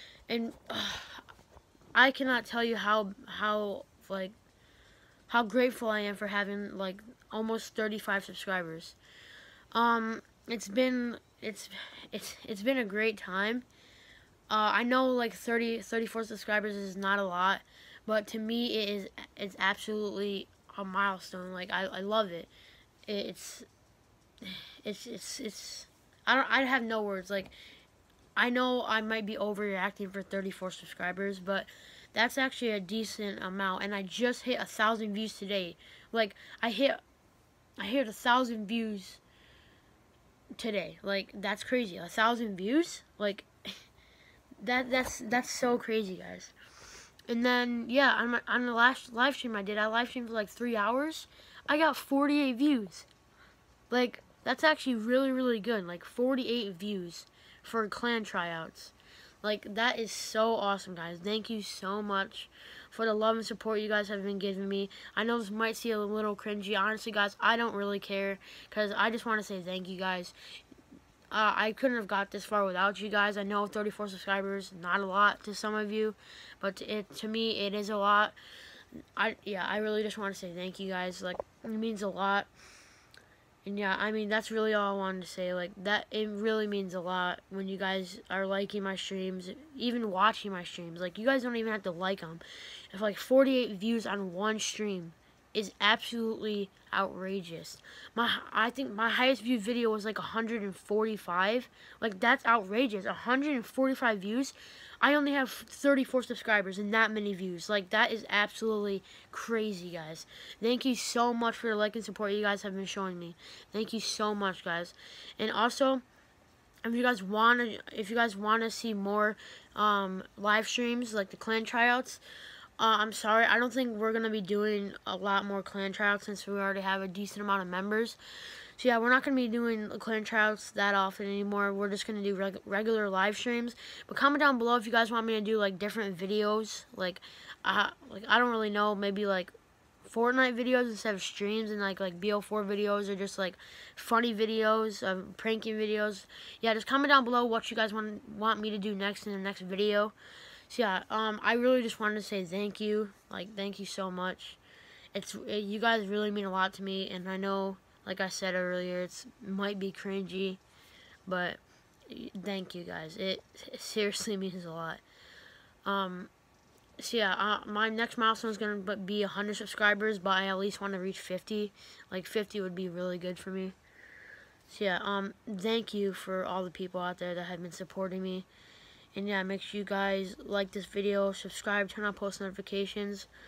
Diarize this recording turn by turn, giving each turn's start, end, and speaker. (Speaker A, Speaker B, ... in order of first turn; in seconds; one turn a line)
Speaker A: 0.3-1.2
Speaker A: 1.9-4.3
Speaker A: 5.3-8.9
Speaker A: 9.7-13.6
Speaker A: 14.5-22.5
Speaker A: 23.1-23.7
Speaker A: 24.4-27.5
Speaker A: 28.4-37.0
Speaker A: 37.8-39.2
Speaker A: 40.5-43.5
Speaker A: 44.6-46.5
Speaker A: 47.3-53.1
Speaker A: 53.9-70.3
Speaker A: 71.3-78.3
Speaker A: 79.2-82.5
Speaker A: 83.6-116.0
Speaker A: 116.8-122.2
Speaker A: 122.8-128.2
Speaker A: 128.8-139.5
Speaker A: 140.0-150.1
Speaker A: 150.7-154.6
Speaker A: 155.1-160.6
Speaker A: 161.2-165.0
Speaker A: 165.8-166.3
Speaker A: 167.0-173.7
Speaker A: 174.7-178.5
Speaker A: 179.1-183.3